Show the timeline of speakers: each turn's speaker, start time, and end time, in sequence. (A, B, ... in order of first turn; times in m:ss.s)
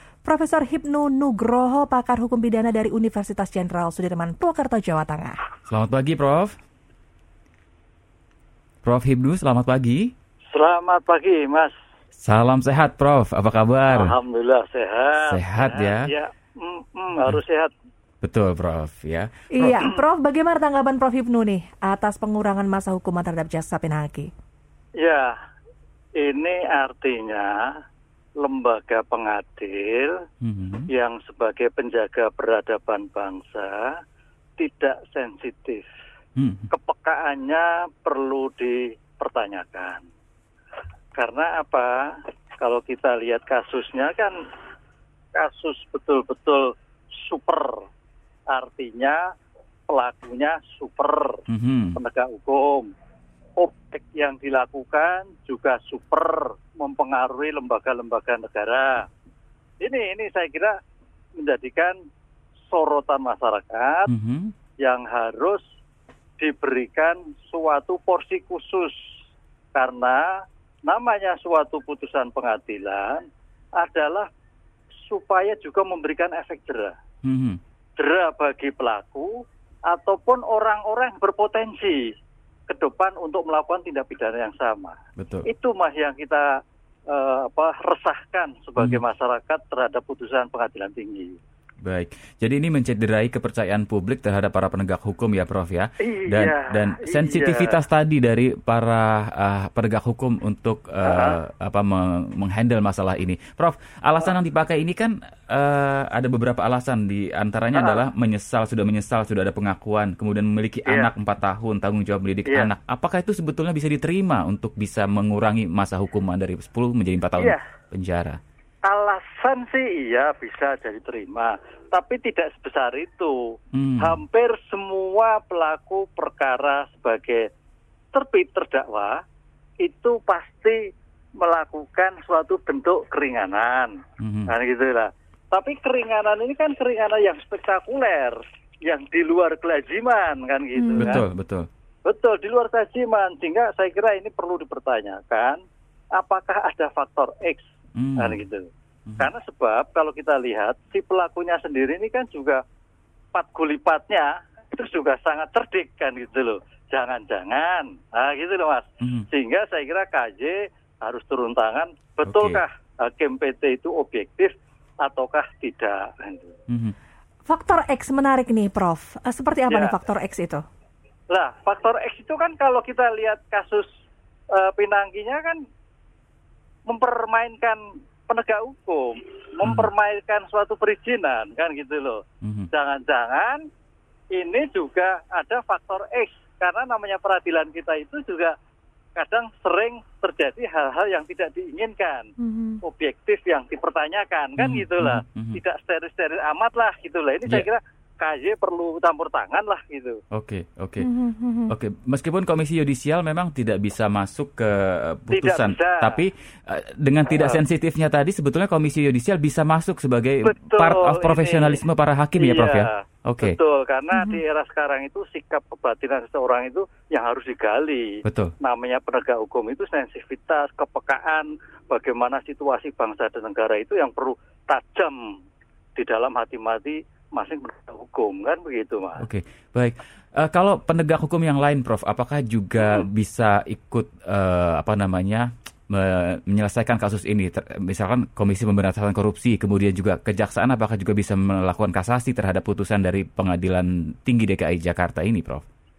0:00.2-0:05.4 A
0:05.7-0:06.6 B
0:08.8-0:10.1 B
0:10.5-0:11.7 C
0:12.2-0:14.1 B
0:13.9-0:17.7 C
0:15.2-0:16.1 B
0:18.2-0:19.8 B
0:19.5-0:24.3 A
0:19.6-0:20.0 C
0:25.0-0:25.3 C
0:26.2-0:27.7 C
0:28.4-0:30.2 C
0:30.4-0:30.9 B
0:30.9-0:34.0 C
0:34.6-0:35.9 C
0:36.4-0:36.7 B
0:36.7-0:40.0 C
0:41.2-0:44.4 C
0:45.4-0:47.8 C
0:48.5-0:49.3 C
0:49.9-0:51.4 C
0:51.5-0:52.0 B
0:52.0-0:52.9 C
0:53.6-0:59.1 C
0:59.8-1:00.8 C
1:01.4-1:02.0 C
1:02.7-1:04.1 C
1:04.1-1:04.5 B
1:04.8-1:05.6 C
1:06.4-1:09.0 C
1:09.8-1:10.2 C
1:10.9-1:13.2 C
1:13.8-1:14.3 C
1:15.1-1:17.0 C
1:17.2-1:17.6 B
1:18.0-1:19.3 C
1:19.9-1:22.1 C
1:22.7-1:26.4 C
1:25.2-1:25.5 B
1:27.1-1:31.4 C
1:31.8-1:58.4 B
1:36.0-1:37.8 C
1:41.0-1:41.4 C
1:47.8-1:48.0 C
1:58.9-2:03.4 C
2:03.7-2:04.2 B
2:04.0-2:07.5 C
2:08.1-2:09.2 C
2:09.8-2:10.8 C
2:11.4-2:21.2 C
2:14.2-2:14.5 B
2:20.7-2:21.2 A
2:21.0-2:21.7 B
2:22.1-2:25.6 C
2:26.2-2:27.7 C
2:28.0-2:28.4 B
2:28.2-2:28.7 C
2:29.2-2:32.6 C
2:33.3-2:46.6 C
2:39.0-2:39.3 B
2:42.2-2:42.6 B
2:46.7-2:47.0 B
2:47.5-2:50.6 A
2:49.7-2:50.0 C
2:51.3-2:53.9 C
2:54.5-2:55.6 C
2:56.9-3:03.6 C
2:59.6-2:59.9 B
3:02.4-3:02.7 B
3:04.3-3:08.6 C
3:09.2-3:12.3 C
3:12.4-3:12.8 A
3:12.8-3:20.2 C
3:14.6-3:15.6 B
3:20.3-3:21.1 B
3:21.0-3:21.7 A
3:21.7-3:33.6 B
3:25.3-3:26.2 C
3:27.3-3:27.6 C
3:30.4-3:31.8 C
3:32.4-3:45.3 C
3:34.1-3:34.4 A
3:38.2-3:38.5 B
3:46.0-3:49.2 C
3:49.2-4:05.6 B